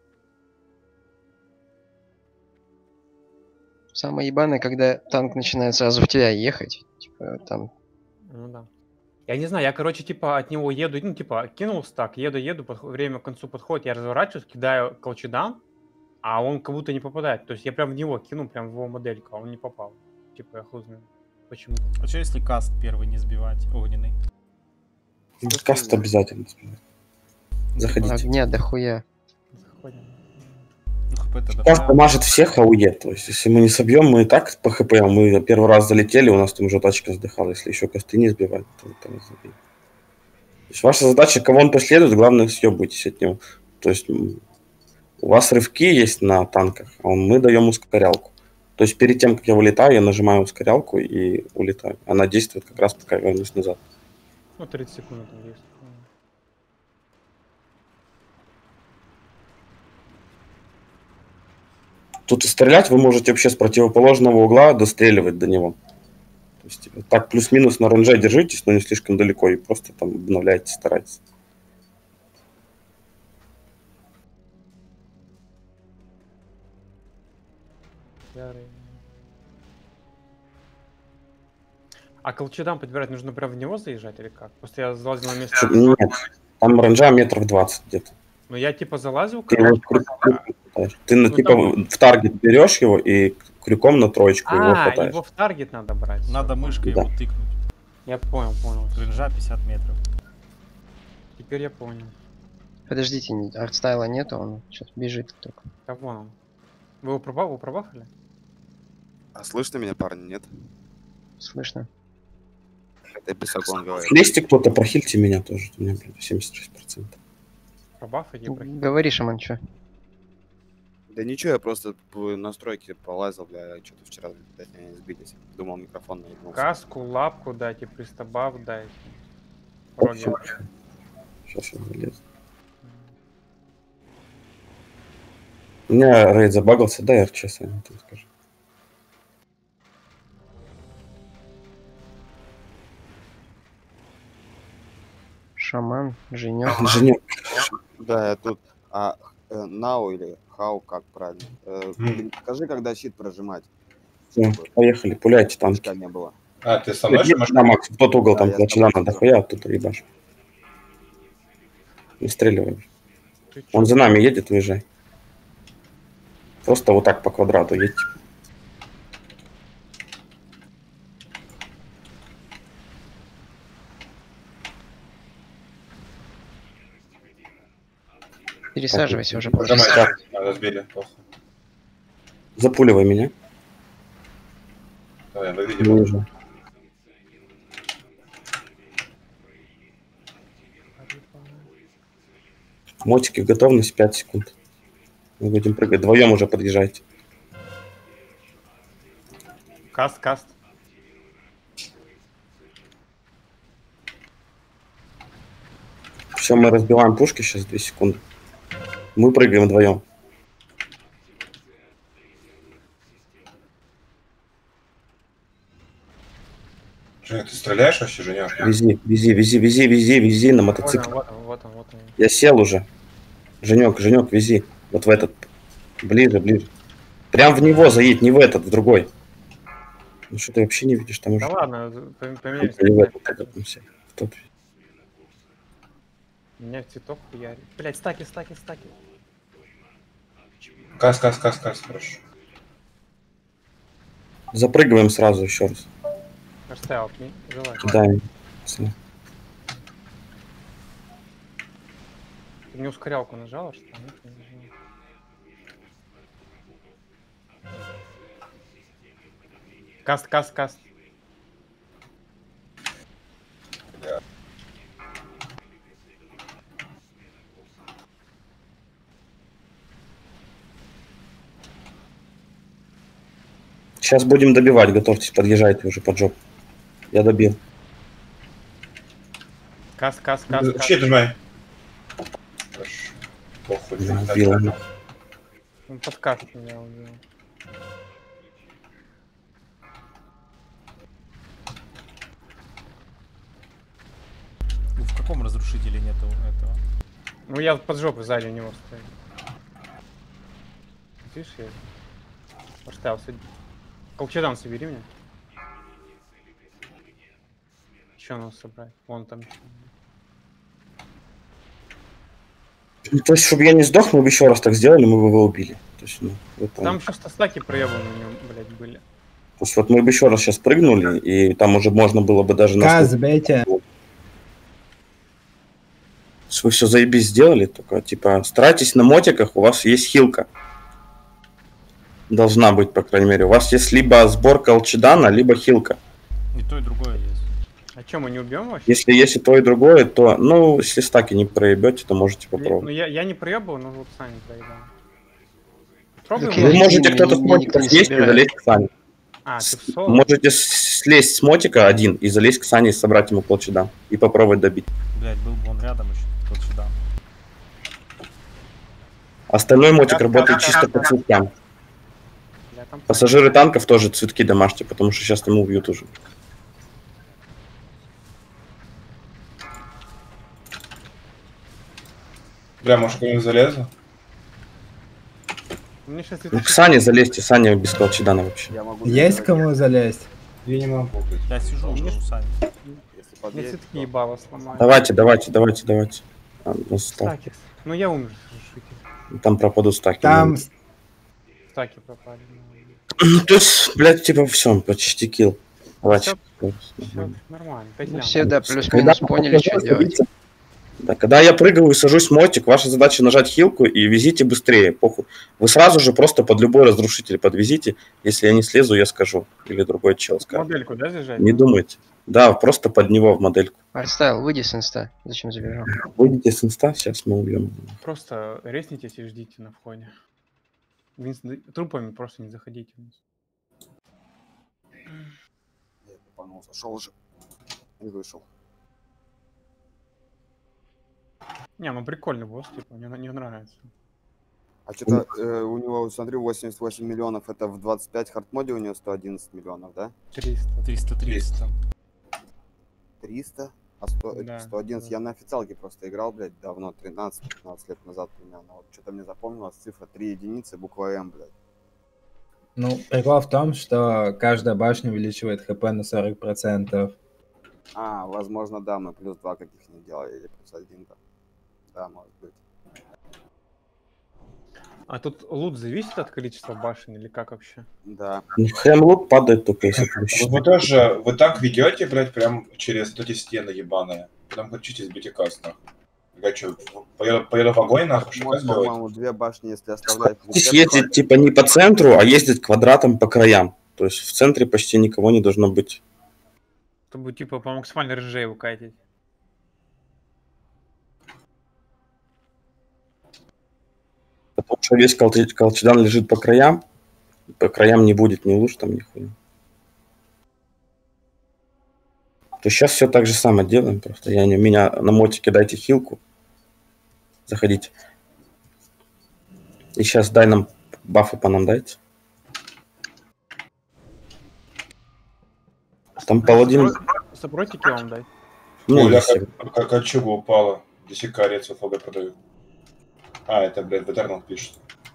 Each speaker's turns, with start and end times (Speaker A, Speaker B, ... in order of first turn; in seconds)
Speaker A: 4.0-7.7, 28.0-29.0, 102.9-105.6, 111.4-111.9, 118.5-119.6, 145.6-147.1, 178.7-180.1, 346.4-348.5, 398.1-400.2, 413.9-416.0
Speaker B: 8.3-8.7, 9.3-15.6, 16.2-21.9, 29.5-30.7, 54.6-56.1, 78.3-79.0, 82.2-86.0, 88.5-90.4, 91.3-91.7, 94.5-96.9, 98.1-99.1, 101.4-102.2, 105.9-106.4, 107.0-108.1, 118.0-118.9, 126.5-129.2, 130.0-130.6, 132.8-133.1, 163.5-164.2, 191.0-191.7, 199.9-200.6, 220.8-222.2, 231.4-233.5, 236.6-239.0, 246.7-248.0, 252.7-254.7, 260.0-260.9, 280.0-281.1, 285.9-287.2, 297.5-299.1, 301.2-301.8, 302.9-303.4, 304.2-305.1, 308.2-309.9, 316.8-319.0, 338.0-339.0, 342.6-344.9, 346.2-347.0, 349.4-350.3, 360.0-361.2, 362.7-363.6, 376.1-377.2, 381.9-382.2, 382.9-385.2, 387.1-389.0, 391.7-393.0, 396.1-396.4, 397.0-398.5, 410.4-411.7, 418.0-420.1, 421.2-423.2, 431.8-433.9, 440.3-441.0, 444.3-445.1, 465.1-467.9, 487.1-489.0, 516.4-518.3
Speaker C: 22.0-24.2, 27.8-28.2, 31.1-32.0, 96.3-97.6, 99.0-100.0, 295.0-296.8, 336.5-337.5, 355.1-357.0, 381.5-382.6, 440.8-441.8
Speaker D: 25.4-26.8, 27.8-28.3, 31.5-39.5, 40.7-44.4, 45.2-53.8, 62.3-65.8, 66.6-71.2, 85.5-88.1, 89.5-95.2, 114.0-117.2, 130.0-130.6, 131.5-132.2, 135.9-138.3, 146.7-147.2, 154.3-155.9, 157.1-160.0, 162.2-162.8, 163.7-164.8, 166.6-168.1, 178.9-180.1, 182.6-183.3, 185.8-186.2, 193.0-194.5, 195.4-197.0, 206.3-208.2, 209.2-210.0, 218.6-221.1, 222.2-222.9, 223.6-225.4, 226.0-226.7, 227.3-229.1, 230.3-231.5, 232.6-234.4, 244.5-245.9, 247.8-248.9, 274.0-276.4, 277.1-277.6, 284.0-284.7, 313.1-317.0, 319.6-323.1, 326.5-330.5, 332.3-336.0, 338.9-342.9, 346.4-348.9, 349.6-354.9, 359.5-361.5, 363.1-366.1, 376.5-378.8, 384.8-387.4, 389.3-390.6, 393.2-397.4, 398.4-400.2, 401.0-410.7, 411.4-413.8, 415.9-418.0, 468.6-470.9, 480.1-486.0, 494.6-496.8, 497.5-499.4, 502.6-506.2, 507.5-507.9, 510.0-512.0, 516.2-517.0, 518.9-519.6
Speaker E: 25.5-26.1, 109.3-110.5, 113.2-114.6, 121.1-126.7, 148.0-153.7, 154.4-154.7, 155.7-156.4, 158.3-159.3, 378.7-379.7, 383.1-384.1, 426.1-427.1, 428.0-428.5, 434.9-440.1, 443.2-451.5, 457.9-461.2, 461.9-462.6, 468.1-468.5, 478.3-481.6
Speaker F: 152.0-152.2, 156.6-157.7, 179.6-181.2, 185.3-186.1, 217.2-218.7, 241.0-242.2, 280.5-281.4, 282.7-284.8, 372.8-373.9, 380.6-382.1, 441.2-441.6, 470.1-475.8, 476.4-479.0, 518.9-522.4, 523.5-524.8
Speaker G: 322.8-323.7, 379.0-380.3, 390.2-390.7, 452.8-457.1